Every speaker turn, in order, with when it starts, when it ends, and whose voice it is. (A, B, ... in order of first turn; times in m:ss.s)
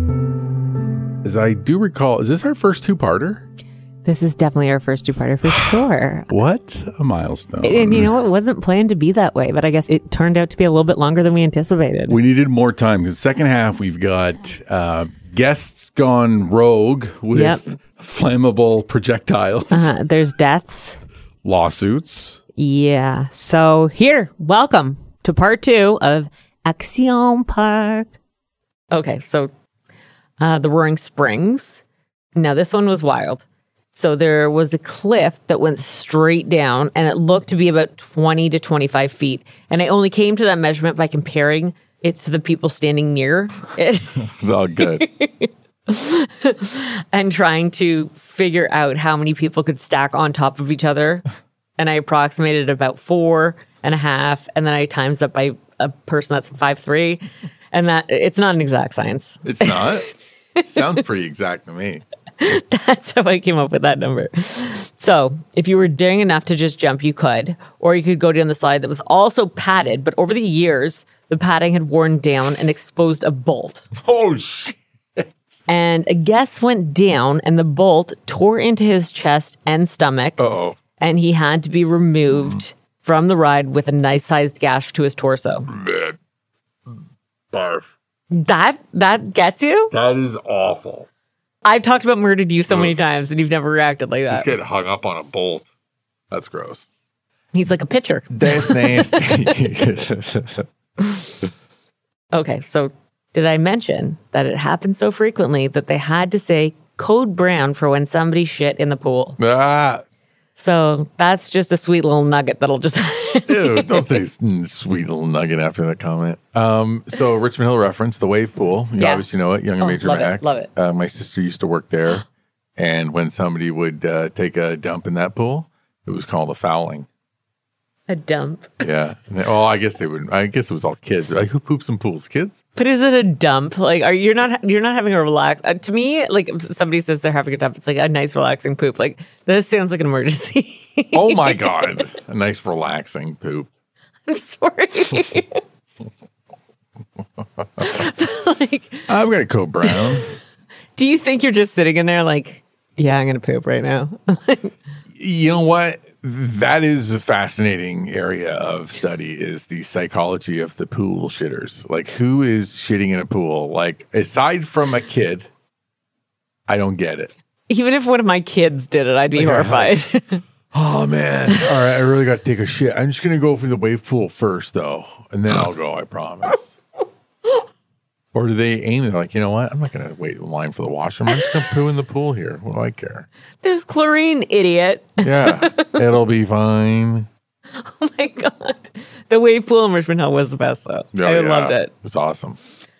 0:01.2-0:03.4 A
0:04.0-0:06.3 B
0:05.4-0:08.1 A
0:07.6-0:12.2 B
0:12.1-0:19.9 A
0:17.3-0:17.6 B
0:19.7-0:21.0 B
0:21.4-0:22.4 A
0:22.6-0:28.1 B
0:28.9-0:29.5 B
0:30.4-0:31.8 B
0:32.3-0:44.3 B
0:44.2-0:45.1 A
0:44.8-0:51.2 B
0:51.8-1:00.0 B
0:59.4-1:00.0 A
1:00.6-1:01.0 B
1:00.6-1:02.0 A
1:02.4-1:13.9 B
1:14.0-1:15.6 A
1:15.7-1:20.4 B
1:20.4-1:20.8 A
1:21.0-1:25.7 B
1:22.3-1:22.6 A
1:25.7-1:26.2 A
1:27.5-1:27.9 A
1:28.3-1:29.9 B
1:29.9-1:31.1 A
1:31.6-1:34.5 B
1:32.7-1:33.0 A
1:34.3-1:35.6 A
1:36.3-1:36.8 A
1:37.5-1:39.6 B
1:38.3-1:40.7 A
1:42.3-1:49.4 B
1:49.4-1:50.0 A
1:50.6-1:54.1 B
1:53.5-2:02.2 A
1:59.0-1:59.3 B
1:59.8-2:00.7 B
2:02.8-2:07.1 A
2:08.1-2:08.9 B
2:08.8-2:12.6 A
2:12.8-2:22.0 B
2:21.1-2:23.7 A
2:24.2-2:25.6 B
2:27.6-2:28.0 A
2:27.8-2:29.1 B
2:29.1-2:30.2 A
2:29.8-2:30.4 B
2:31.0-2:34.8 B
2:35.1-2:45.5 A
2:46.7-2:47.3 A
2:47.7-2:50.4 B
2:49.3-2:50.0 A
2:50.7-2:56.7 A
2:58.3-3:03.3 A
3:01.3-3:01.6 B
3:03.6-3:06.0 B
3:05.2-3:07.3 A
3:07.8-3:11.9 B
3:11.1-3:12.6 A